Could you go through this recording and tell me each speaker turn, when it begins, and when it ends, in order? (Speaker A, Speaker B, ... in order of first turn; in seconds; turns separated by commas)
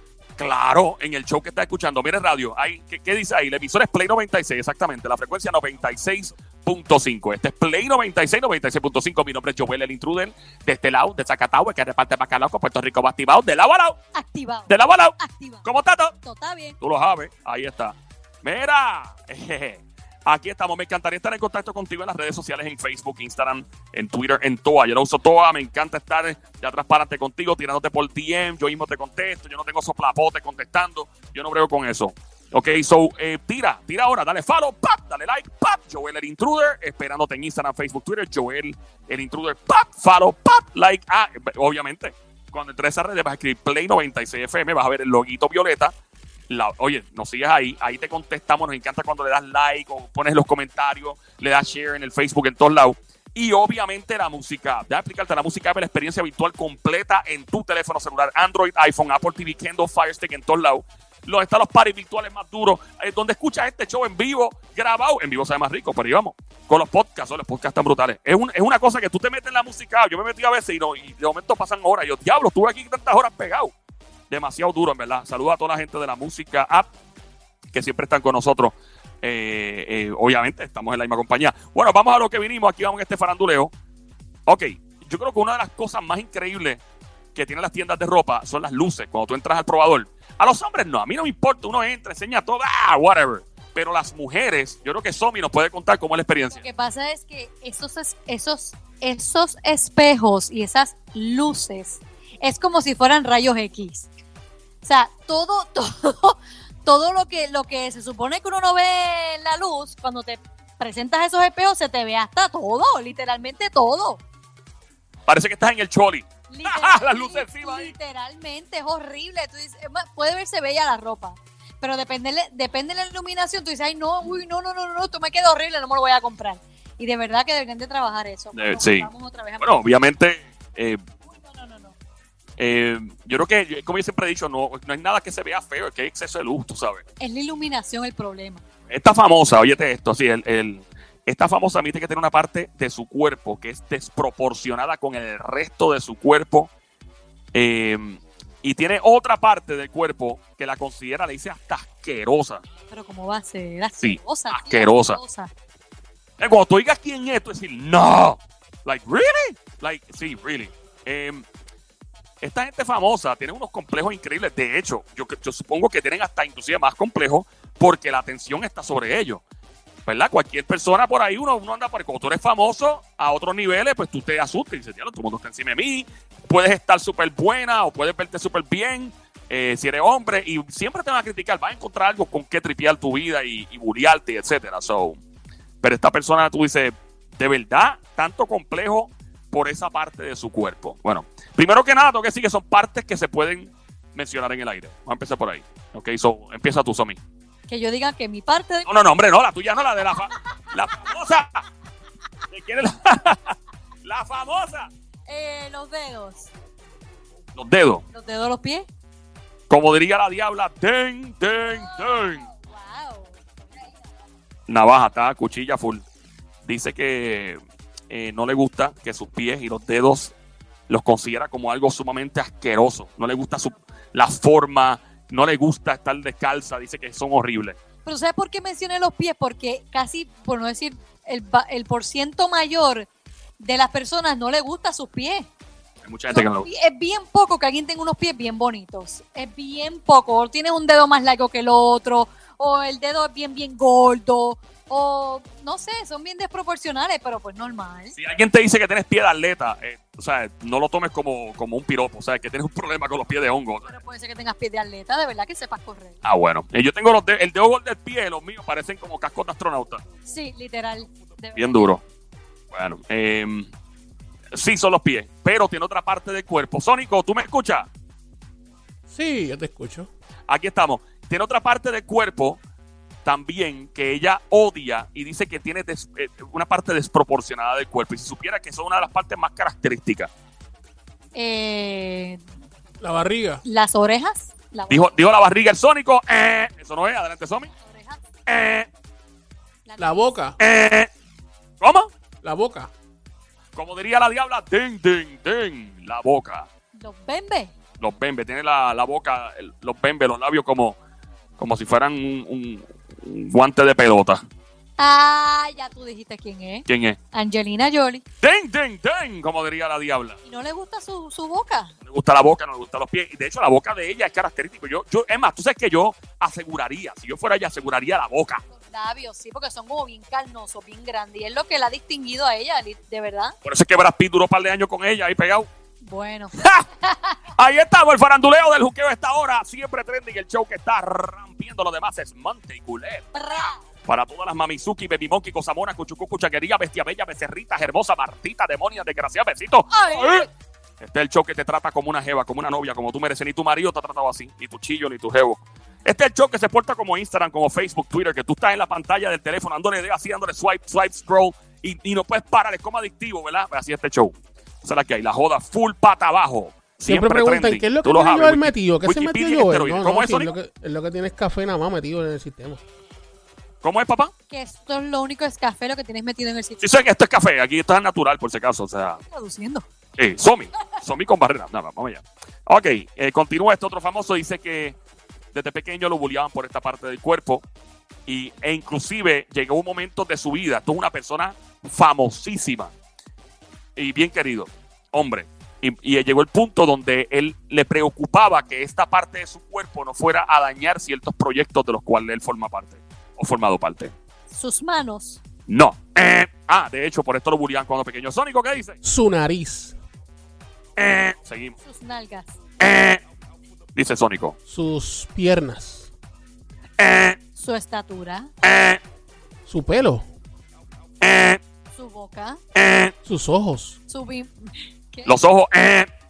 Speaker A: 0.4-14.0, Speaker B: 14.1-15.7, Speaker A: 14.7-16.1, Speaker B: 16.2-16.8, Speaker A: 16.8-45.9, Speaker A: 46.5-73.7, Speaker A: 74.3-76.9, Speaker A: 77.7-83.7, Speaker A: 84.5-86.8, Speaker A: 87.3-96.6, Speaker B: 96.5-104.1, Speaker B: 104.8-114.2, Speaker A: 115.3-117.9, Speaker B: 116.5-129.8, Speaker A: 128.6-129.1, Speaker A: 129.6-131.0, Speaker B: 131.3-131.9, Speaker A: 132.6-137.0, Speaker B: 137.2-138.6, Speaker A: 138.9-146.7, Speaker A: 147.5-152.6, Speaker B: 152.9-155.5, Speaker A: 154.0-155.2, Speaker A: 156.4-161.5, Speaker A: 162.4-169.4, Speaker A: 170.1-185.2, Speaker A: 185.8-197.2, Speaker B: 197.7-198.9, Speaker A: 198.9-201.5, Speaker A: 202.5-203.5, Speaker A: 204.1-204.9, Speaker B: 205.3-206.5, Speaker A: 207.6-208.0, Speaker B: 208.1-208.9, Speaker A: 209.7-212.4, Speaker B: 211.5-213.4, Speaker A: 214.7-216.1, Speaker A: 216.7-220.3, Speaker A: 220.9-227.8, Speaker B: 228.0-233.1, Speaker B: 233.6-235.5, Speaker A: 236.0-236.7, Speaker B: 236.3-248.1, Speaker A: 248.2-254.0, Speaker B: 253.9-256.2, Speaker A: 256.2-260.0, Speaker B: 260.3-262.0, Speaker A: 261.6-262.0, Speaker A: 262.7-263.7, Speaker A: 264.6-267.9, Speaker C: 269.1-270.1, Speaker A: 270.5-272.6, Speaker A: 273.2-280.3, Speaker B: 281.3-282.4, Speaker C: 283.0-283.6, Speaker B: 283.6-285.1, Speaker A: 284.9-287.7, Speaker B: 287.7-288.2, Speaker A: 288.5-288.9, Speaker B: 289.9-290.3, Speaker C: 290.0-290.6, Speaker A: 290.6-291.1, Speaker A: 291.8-292.1, Speaker C: 292.4-292.9, Speaker A: 293.8-296.7, Speaker B: 296.9-297.8, Speaker A: 298.0-301.0, Speaker A: 301.6-304.4, Speaker B: 305.0-308.2, Speaker A: 306.9-307.2, Speaker A: 308.4-310.4, Speaker B: 310.4-311.9, Speaker A: 312.1-318.6, Speaker B: 318.7-323.6, Speaker A: 323.6-325.7, Speaker B: 326.0-327.4, Speaker A: 326.6-326.9, Speaker A: 327.6-333.4, Speaker B: 333.3-333.8, Speaker A: 334.1-340.5, Speaker B: 339.9-340.5, Speaker A: 341.0-360.5, Speaker C: 357.1-362.8, Speaker A: 363.8-364.3, Speaker B: 364.5-366.8, Speaker A: 366.8-369.2, Speaker B: 369.3-369.9, Speaker A: 370.2-375.0, Speaker A: 375.5-377.6, Speaker A: 378.3-382.9, Speaker A: 384.0-394.1, Speaker B: 394.5-395.4, Speaker A: 395.7-399.0, Speaker C: 399.0-400.0, Speaker A: 401.0-401.8, Speaker B: 401.8-402.6, Speaker A: 402.8-403.2, Speaker A: 404.0-404.6, Speaker C: 404.7-406.1, Speaker A: 407.0-407.4, Speaker B: 407.6-408.5, Speaker A: 408.6-409.0, Speaker C: 409.7-410.2, Speaker A: 411.2-411.6, Speaker B: 411.9-412.6, Speaker A: 412.8-413.1, Speaker C: 413.2-414.0, Speaker B: 414.1-415.3, Speaker A: 415.2-416.1